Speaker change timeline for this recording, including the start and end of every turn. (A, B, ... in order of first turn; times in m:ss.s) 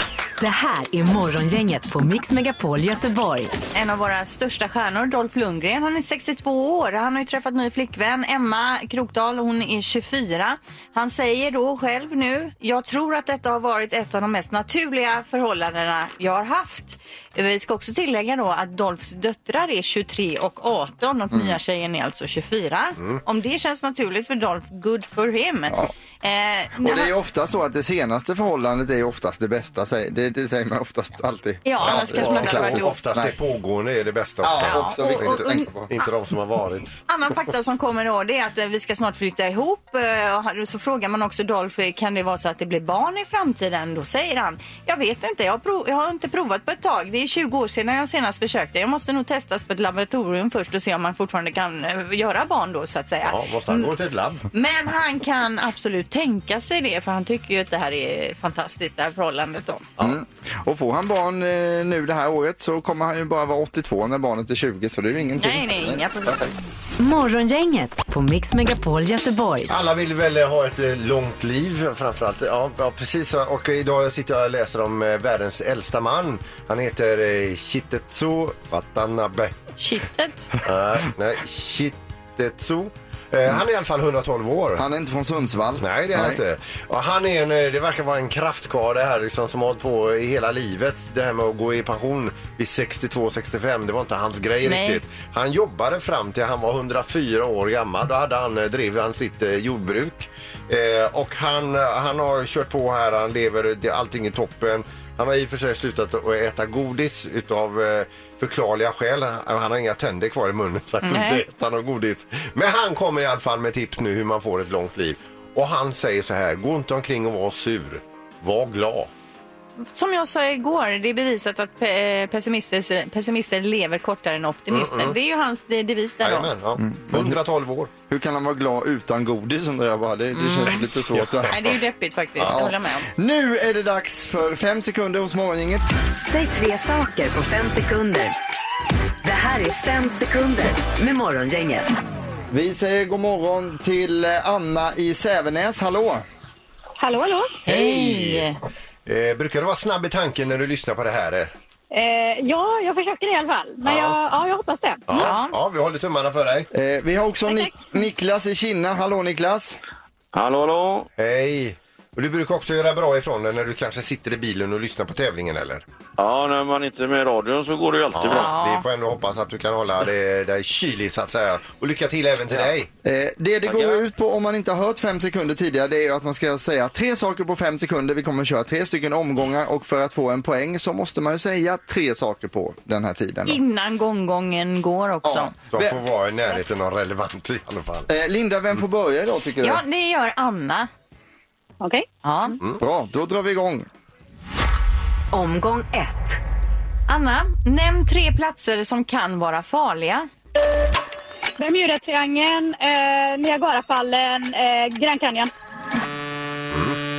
0:00.4-0:03.5 A
0:03.7-0:27.1 B
0:21.3-0:21.6 C
0:26.8-0:33.3 C
0:31.6-0:33.0 B
0:31.8-0:37.0 D
0:34.4-0:35.9 C
0:34.6-0:36.1 B
0:37.1-0:53.9 B
0:53.2-0:54.5 D
0:54.5-0:59.9 B
1:00.0-1:06.5 C
1:05.4-1:06.5 B
1:07.0-1:09.8 A
1:09.7-1:19.5 D
1:19.8-1:20.5 B
1:20.6-1:24.8 D
1:24.8-1:26.4 C
1:25.8-1:59.1 D
1:34.6-1:35.0 B
1:51.0-1:51.4 B
1:59.8-2:06.5 B
2:04.7-2:05.2 D
2:06.2-2:07.9 D
2:06.8-2:07.4 C
2:08.1-2:11.6 C
2:10.4-2:10.8 B
2:11.1-2:11.6 D
2:11.5-2:13.1 B
2:12.5-2:15.8 C
2:16.2-2:18.3 A
2:19.2-2:21.9 A
2:22.5-2:26.2 C
2:27.0-2:27.6 E
2:27.6-2:28.5 D
2:27.6-2:28.6 B
2:29.1-2:31.5 D
2:31.9-2:35.0 E
2:33.8-2:34.2 D
2:35.1-2:36.7 D
2:35.1-2:35.6 B
2:36.7-2:39.8 C
2:37.5-2:37.9 E
2:40.3-2:41.1 F
2:41.2-2:45.8 D
2:46.2-2:48.5 F
2:48.1-2:52.9 D
2:48.3-2:48.8 B
2:53.0-3:03.6 C
2:53.6-2:54.0 F
3:03.5-3:05.5 B
3:05.2-3:06.0 C
3:05.7-3:08.1 D
3:08.1-3:09.8 C
3:09.6-3:10.9 B
3:11.8-3:12.1 E
3:12.2-3:12.6 B
3:12.8-3:13.9 C
3:15.3-3:16.4 A
3:17.1-3:20.3 B
3:21.6-3:25.5 E
3:26.7-3:27.0 D